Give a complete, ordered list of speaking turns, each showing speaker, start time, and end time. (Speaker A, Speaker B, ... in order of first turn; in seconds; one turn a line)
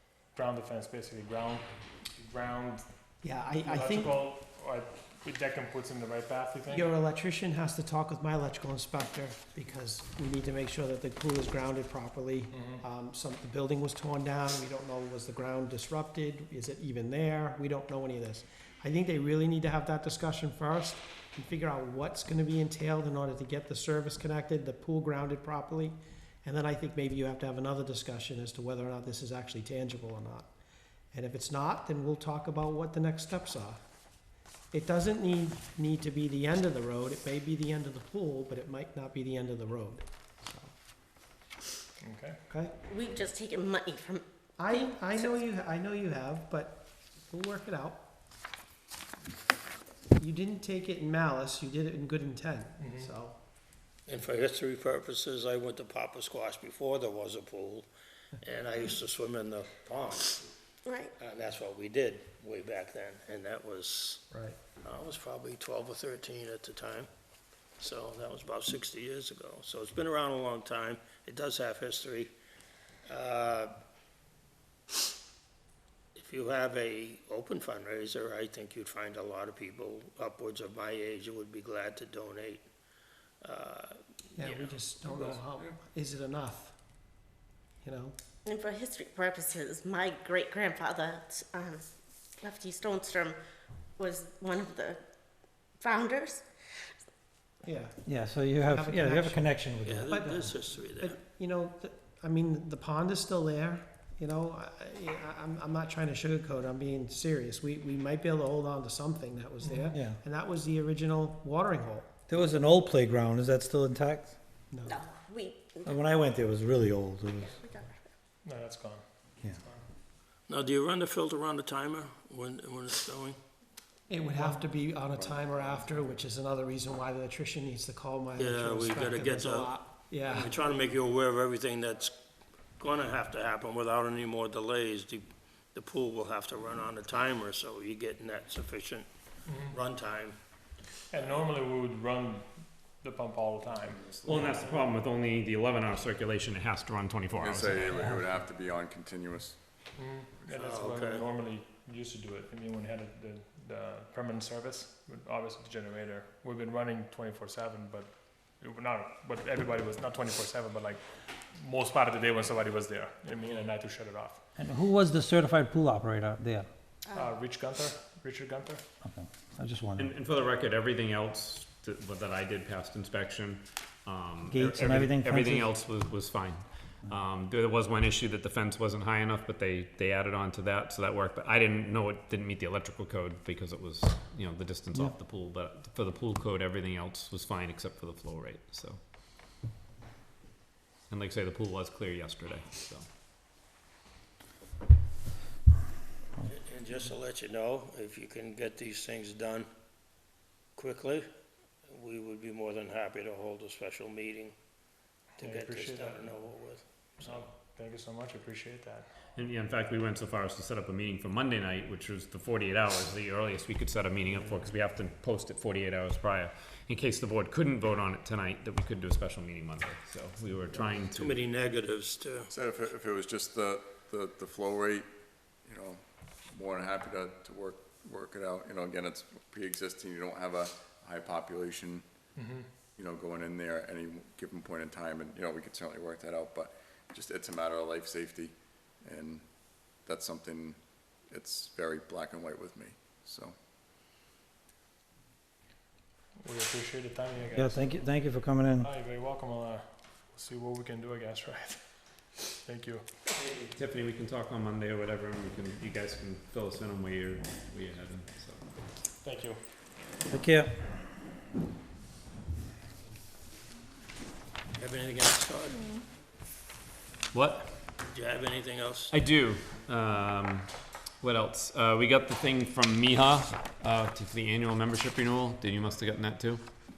Speaker A: 0.3-2.9
Speaker B: 3.2-4.2
Speaker A: 3.6-6.9
Speaker B: 6.7-30.5
Speaker A: 12.5-12.8
Speaker B: 31.1-33.8
Speaker B: 34.7-40.7
Speaker A: 42.0-42.4
Speaker B: 42.5-42.7
Speaker C: 42.8-45.4
Speaker B: 44.6-48.0
Speaker B: 50.1-53.4
Speaker A: 52.8-53.1
Speaker D: 54.1-57.9
Speaker D: 58.4-60.5
Speaker C: 60.9-61.1
Speaker D: 61.2-64.3
Speaker B: 64.3-64.6
Speaker D: 64.8-67.1
Speaker D: 67.8-72.3
Speaker D: 73.1-73.7
Speaker D: 76.1-82.6
Speaker D: 83.4-85.3
Speaker B: 84.3-86.8
Speaker B: 87.8-88.2
Speaker C: 88.5-91.8
Speaker C: 92.4-93.4
Speaker C: 94.0-95.0
Speaker C: 95.8-96.4
Speaker B: 97.6-99.5
Speaker E: 98.0-100.2
Speaker D: 99.8-101.2
Speaker B: 100.1-112.1
Speaker A: 109.6-109.9
Speaker E: 109.9-110.2
Speaker E: 112.3-114.3
Speaker B: 114.7-115.0
Speaker C: 114.8-115.9
Speaker E: 115.8-117.5
Speaker C: 117.5-118.1
Speaker A: 118.4-119.8
Speaker D: 120.5-123.4
Speaker B: 124.1-130.5
Speaker F: 125.0-125.8
Speaker D: 128.3-132.2
Speaker D: 132.8-139.1
Speaker A: 139.4-139.8
Speaker D: 139.7-140.4
Speaker A: 141.1-142.5
Speaker A: 143.0-144.8
Speaker G: 144.2-147.9
Speaker F: 147.4-149.6
Speaker A: 150.0-164.4
Speaker D: 150.5-151.2
Speaker E: 164.6-166.7
Speaker A: 167.1-168.8
Speaker E: 169.0-170.1
Speaker G: 170.0-189.0
Speaker E: 174.4-175.7
Speaker G: 191.1-193.1
Speaker D: 196.4-199.7
Speaker D: 200.7-201.3
Speaker D: 201.9-204.5
Speaker D: 205.4-207.5
Speaker A: 205.4-206.4
Speaker A: 207.2-209.2
Speaker G: 209.3-221.4
Speaker D: 220.7-222.5
Speaker F: 222.5-225.0
Speaker F: 225.6-232.0
Speaker A: 232.3-232.7
Speaker F: 232.9-239.4
Speaker F: 240.0-243.5
Speaker A: 246.4-248.2
Speaker E: 247.5-248.9
Speaker A: 248.8-253.1
Speaker G: 253.7-258.6
Speaker A: 259.2-259.6
Speaker E: 260.3-260.7
Speaker D: 264.7-265.9
Speaker G: 267.3-267.7
Speaker D: 268.0-269.1
Speaker G: 269.1-270.7
Speaker G: 271.2-276.6